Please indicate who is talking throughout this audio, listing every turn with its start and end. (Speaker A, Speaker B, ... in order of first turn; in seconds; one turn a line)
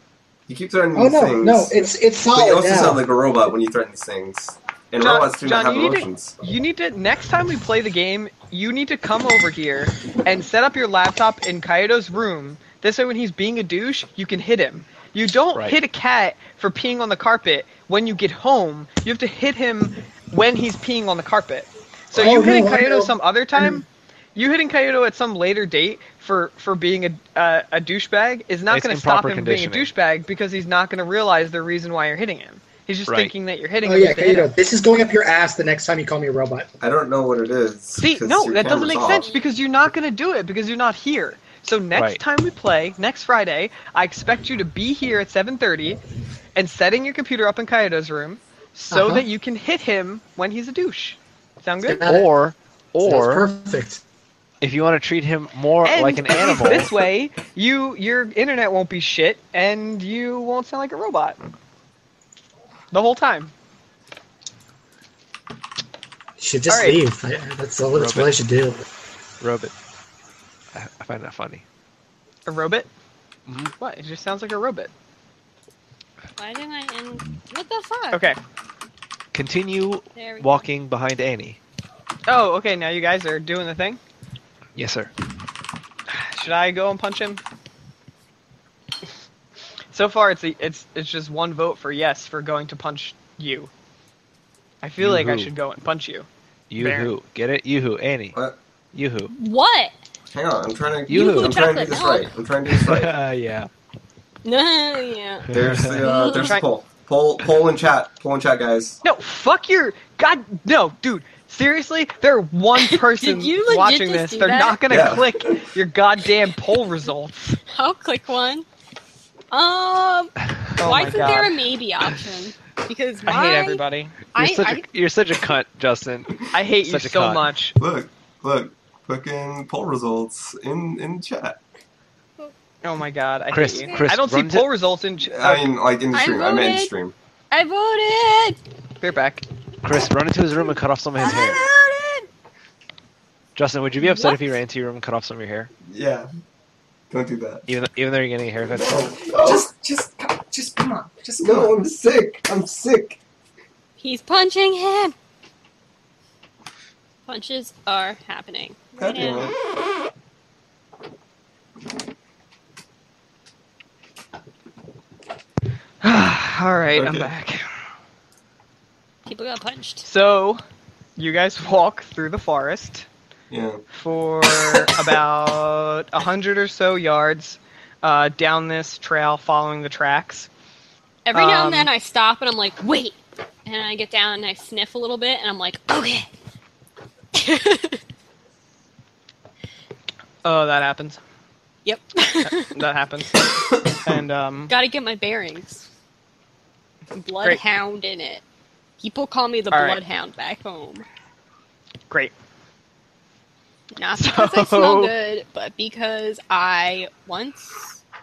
Speaker A: 0.5-6.3
Speaker B: 0.9-3.0
Speaker C: 5.0-34.5
Speaker B: 22.1-23.8
Speaker D: 28.7-29.9
Speaker D: 33.1-33.3
Speaker B: 33.8-36.7
Speaker A: 36.8-39.3
Speaker C: 38.0-46.0
Speaker E: 39.0-39.4
Speaker D: 42.0-42.2
Speaker C: 46.6-52.0
Speaker B: 48.9-49.2
Speaker B: 51.9-52.3
Speaker D: 52.0-53.5
Speaker B: 53.0-54.0
Speaker D: 54.6-57.0
Speaker C: 55.8-61.4
Speaker C: 62.9-63.5
Speaker B: 66.4-68.8
Speaker C: 66.7-67.0
Speaker D: 68.0-68.3
Speaker D: 69.4-69.7
Speaker D: 70.7-71.6
Speaker C: 72.5-72.9
Speaker D: 73.5-73.7
Speaker C: 73.8-74.9
Speaker E: 76.4-78.3
Speaker C: 78.1-78.4
Speaker D: 79.3-81.6
Speaker E: 80.2-80.7
Speaker C: 82.3-84.0
Speaker D: 84.8-85.1
Speaker C: 86.1-87.4
Speaker C: 89.9-93.7
Speaker C: 94.8-96.3
Speaker D: 95.0-95.5
Speaker D: 96.7-98.3
Speaker C: 96.8-97.1
Speaker D: 98.9-99.3
Speaker E: 99.3-99.9
Speaker A: 100.3-103.1
Speaker E: 101.1-102.3
Speaker D: 101.1-101.7
Speaker D: 102.8-103.7
Speaker E: 104.4-106.6
Speaker D: 105.5-106.0
Speaker A: 105.5-109.0
Speaker C: 106.2-106.7
Speaker C: 109.0-117.6
Speaker E: 112.8-114.8
Speaker A: 114.9-115.6
Speaker E: 117.7-118.7
Speaker E: 119.5-123.8
Speaker C: 120.8-121.5
Speaker C: 123.3-124.2
Speaker E: 124.3-124.9
Speaker D: 124.3-127.5
Speaker C: 126.5-127.8
Speaker A: 127.8-131.6
Speaker C: 132.8-135.7
Speaker D: 133.5-134.7
Speaker A: 135.3-137.1
Speaker E: 136.1-136.9
Speaker E: 137.5-138.6
Speaker C: 139.0-139.4
Speaker D: 139.8-141.6
Speaker E: 141.2-142.3
Speaker D: 143.6-145.7
Speaker E: 144.0-144.4
Speaker A: 145.9-146.3
Speaker A: 147.1-147.7
Speaker D: 147.7-149.6
Speaker A: 148.7-153.2
Speaker D: 151.4-151.7
Speaker E: 154.0-155.1
Speaker E: 157.3-159.5
Speaker A: 159.0-159.6
Speaker C: 166.0-167.7
Speaker A: 166.9-167.3
Speaker E: 169.3-170.1
Speaker C: 170.1-170.6
Speaker C: 171.2-173.1
Speaker A: 173.5-173.8
Speaker C: 173.9-180.5
Speaker E: 181.3-186.3
Speaker C: 181.3-181.9
Speaker E: 187.3-188.0
Speaker C: 190.4-191.2
Speaker E: 191.8-192.8
Speaker C: 192.4-193.4
Speaker C: 194.0-194.7
Speaker E: 194.7-195.8
Speaker E: 197.1-198.4
Speaker E: 199.0-201.1
Speaker C: 199.7-200.0
Speaker E: 204.0-207.8
Speaker C: 204.2-205.1